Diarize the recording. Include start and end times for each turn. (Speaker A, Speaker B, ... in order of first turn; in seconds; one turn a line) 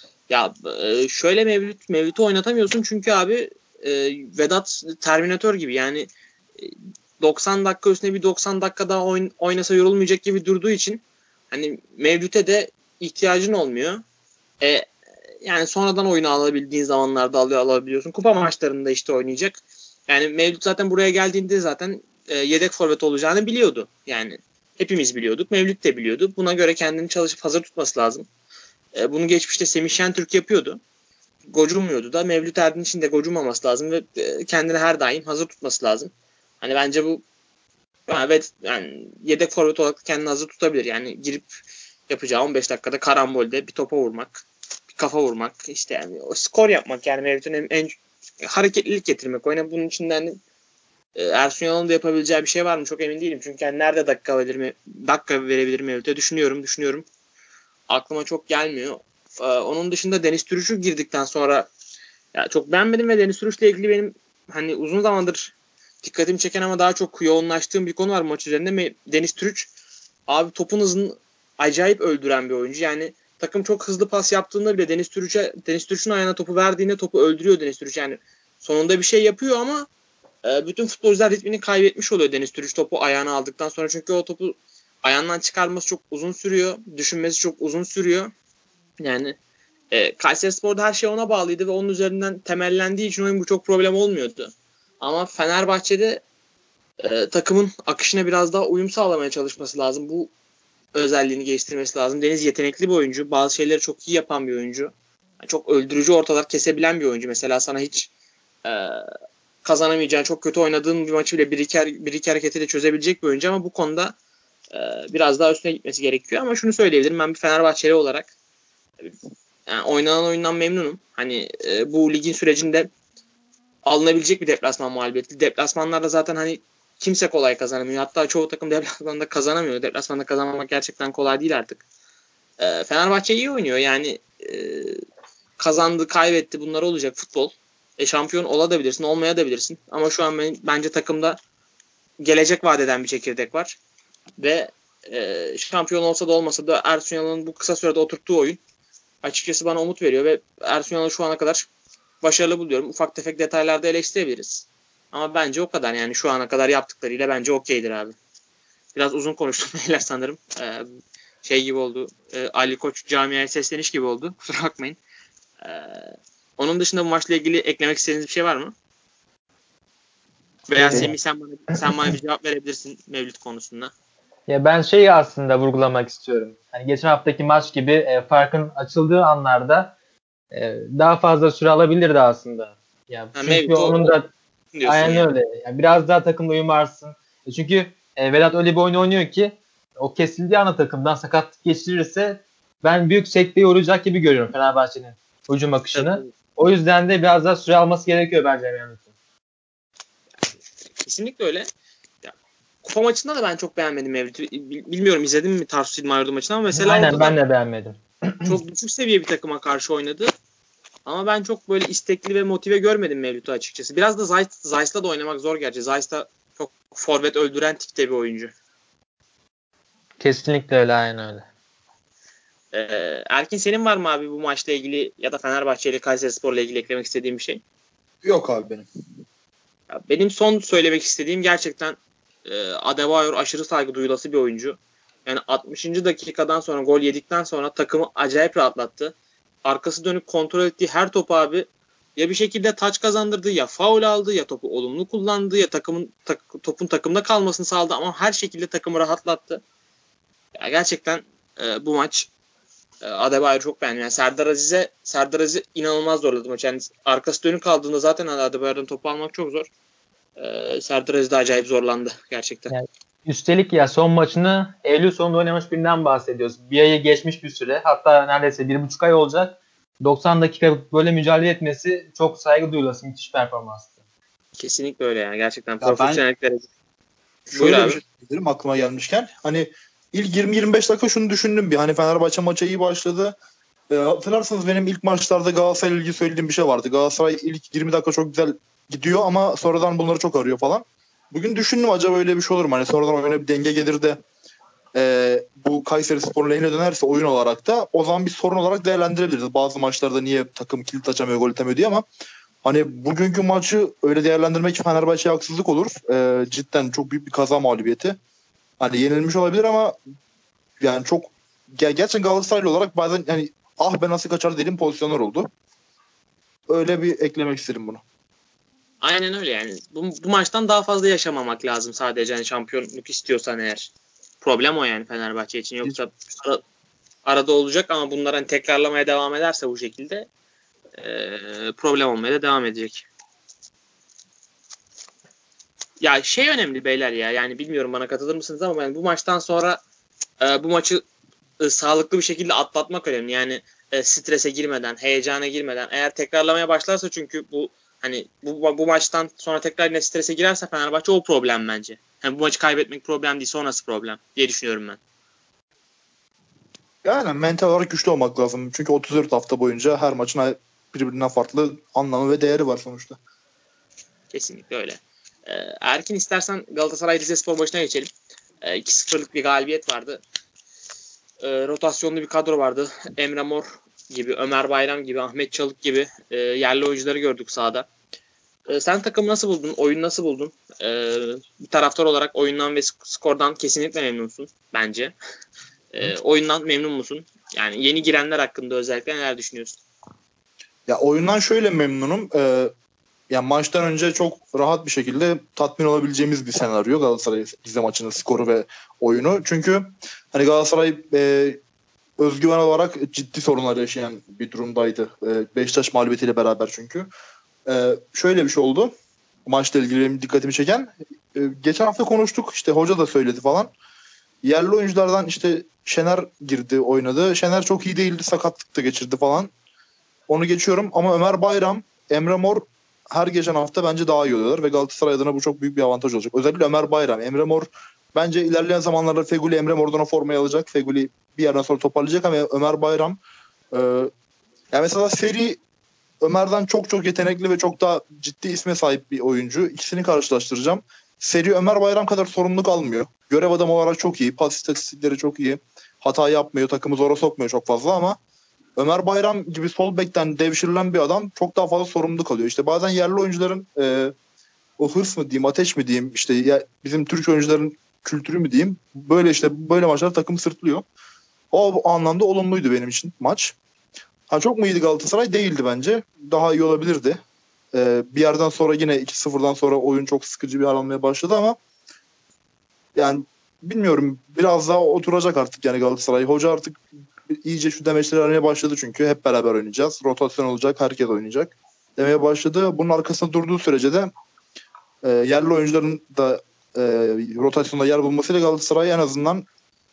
Speaker A: 0.3-14.0
Speaker A: 14.6-14.9
Speaker A: 15.4-28.3
Speaker A: 28.9-30.8
Speaker A: 31.5-37.2
Speaker A: 38.1-41.5
Speaker A: 42.1-44.4
Speaker A: 45.0-50.4
Speaker A: 51.1-57.0
Speaker A: 57.9-61.7
Speaker A: 62.3-69.7
Speaker A: 70.3-79.9
Speaker A: 80.4-88.3
Speaker A: 89.0-89.3
Speaker A: 89.9-96.2
Speaker A: 97.0-100.3
Speaker A: 100.9-108.1
Speaker A: 108.6-109.0
Speaker A: 109.6-114.1
Speaker A: 114.7-118.3
Speaker A: 119.7-122.9
Speaker A: 123.8-131.8
Speaker A: 132.6-135.0
Speaker A: 135.6-141.4
Speaker A: 142.2-143.8
Speaker A: 144.4-148.6
Speaker A: 149.2-151.7
Speaker A: 152.2-158.2
Speaker A: 158.9-160.9
Speaker A: 161.4-165.0
Speaker A: 165.6-168.7
Speaker A: 170.7-173.9
Speaker B: 170.8-171.1
Speaker B: 174.5-179.9
Speaker B: 180.5-184.3
Speaker A: 183.3-184.1
Speaker A: 184.7-185.3
Speaker B: 184.8-199.1
Speaker A: 195.9-196.3
Speaker A: 201.0-201.7
Speaker A: 202.2-207.4
Speaker B: 206.7-208.6
Speaker A: 208.4-210.3
Speaker A: 211.1-218.5
Speaker B: 220.2-221.5
Speaker A: 222.7-227.6
Speaker C: 228.2-228.9
Speaker A: 229.9-249.6
Speaker A: 250.6-252.3
Speaker A: 253.0-259.7
Speaker A: 260.4-262.7
Speaker B: 262.7-273.9
Speaker A: 274.6-276.6
Speaker C: 275.8-276.2
Speaker C: 277.5-283.3
Speaker A: 277.5-278.0
Speaker C: 283.9-294.2
Speaker C: 294.9-302.0
Speaker C: 302.6-308.2
Speaker C: 308.8-309.9
Speaker C: 310.8-315.5
Speaker C: 316.7-318.0
Speaker A: 319.0-326.6
Speaker A: 327.2-330.3
Speaker A: 331.0-333.1
Speaker A: 336.0-339.8
Speaker A: 340.4-341.0
Speaker A: 341.6-355.0
Speaker C: 357.0-363.2
Speaker A: 364.3-368.1
Speaker A: 368.6-370.2
Speaker A: 371.4-377.9
Speaker A: 378.7-385.1
Speaker A: 385.9-389.8
Speaker C: 390.9-392.7
Speaker C: 393.3-401.6
Speaker C: 402.2-407.1
Speaker C: 407.6-408.9
Speaker C: 409.4-413.7
Speaker C: 414.4-419.5
Speaker C: 420.3-433.2
Speaker C: 433.7-434.1
Speaker C: 434.7-435.6
Speaker C: 436.2-448.2
Speaker C: 448.8-454.1
Speaker C: 454.8-460.8
Speaker C: 461.5-463.6
Speaker C: 464.3-467.2
Speaker C: 467.7-471.6
Speaker C: 472.9-484.1
Speaker C: 485.0-489.5